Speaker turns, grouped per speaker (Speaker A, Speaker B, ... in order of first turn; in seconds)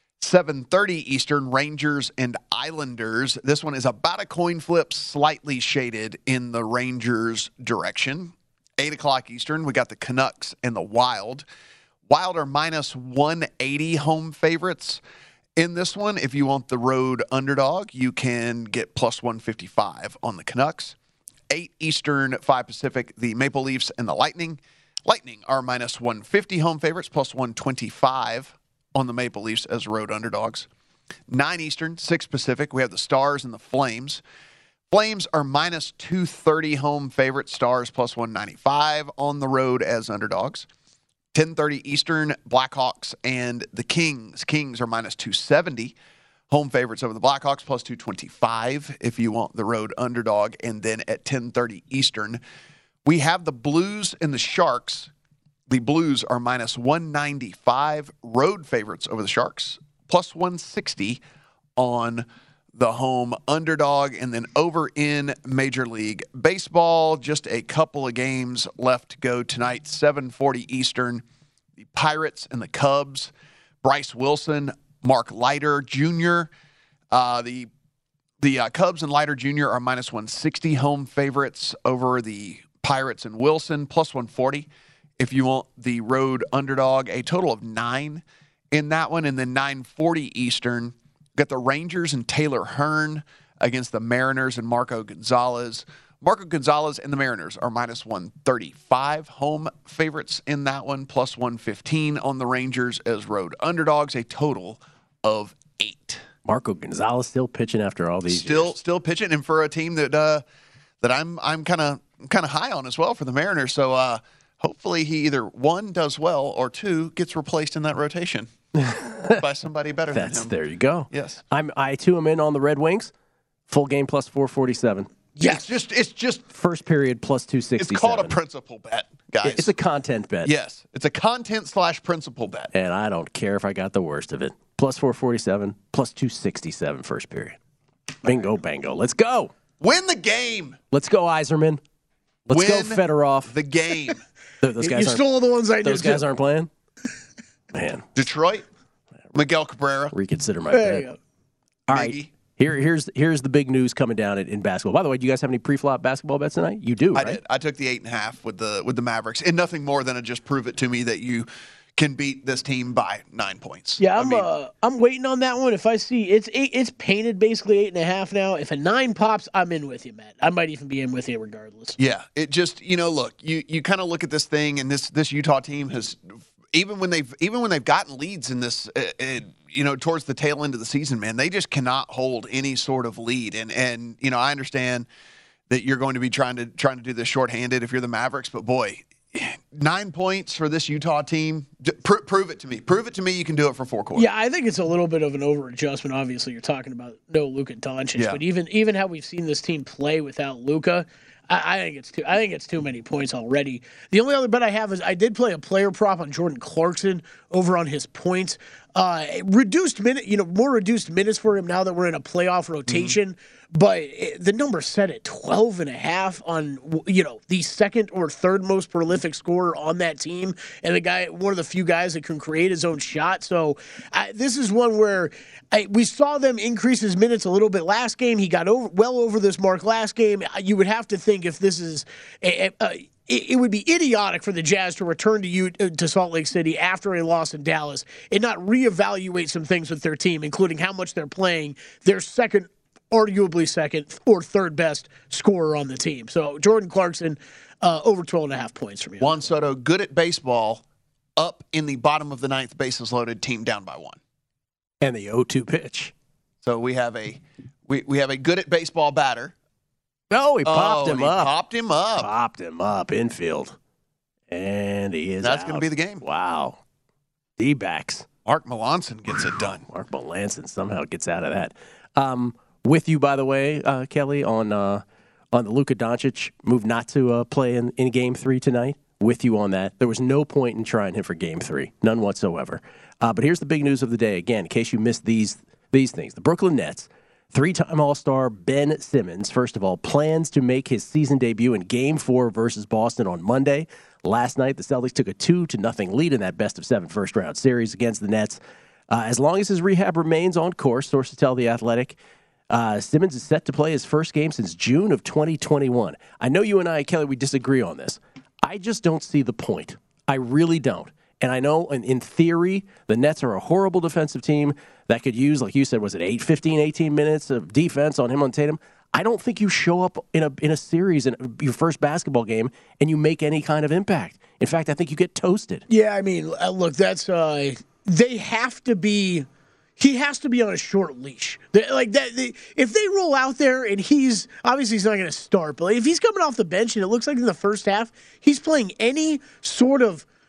Speaker A: 0.2-11.4, 12.1-15.0, 15.6-20.9, 21.5-30.7, 31.3-34.2, 34.9-40.7, 41.3-45.9, 46.5-52.4, 53.0-55.1, 55.7-61.2, 61.8-71.2, 71.9-73.3, 73.8-76.5, 77.1-77.7, 78.4-106.2, 108.3-110.4, 111.0-118.5, 119.3-120.5, 121.1-121.4, 125.4-126.5, 127.8-129.8, 130.4-132.7, 139.8-140.8, 142.5-144.2, 148.1-148.6, 149.3-150.1, 151.9-152.3, 157.1-164.5, 172.0-185.1, 185.7-194.3, 198.1-198.4, 212.9-213.2, 249.2-250.8, 251.4-254.2, 256.6-259.5, 260.6-262.3, 265.4-266.2, 268.4-269.8
Speaker B: 106.4-108.7, 118.8-119.3, 120.1-123.1, 123.7-125.1, 126.5-128.3, 129.4-130.5, 132.7-137.6, 138.2-139.5, 140.9-141.8, 142.5-143.5, 144.6-145.3, 145.8-146.7, 147.7-148.1, 150.1-151.1, 151.9-157.4, 255.0-256.1, 260.3-261.5, 262.2-263.7, 264.5-266.8, 267.6-268.2, 269.9-298.6, 299.1-302.2, 302.7-325.8
Speaker C: 125.4-125.7, 144.8-146.2, 150.7-151.2, 164.0-172.0, 194.1-249.3, 325.9-329.5, 330.0-340.2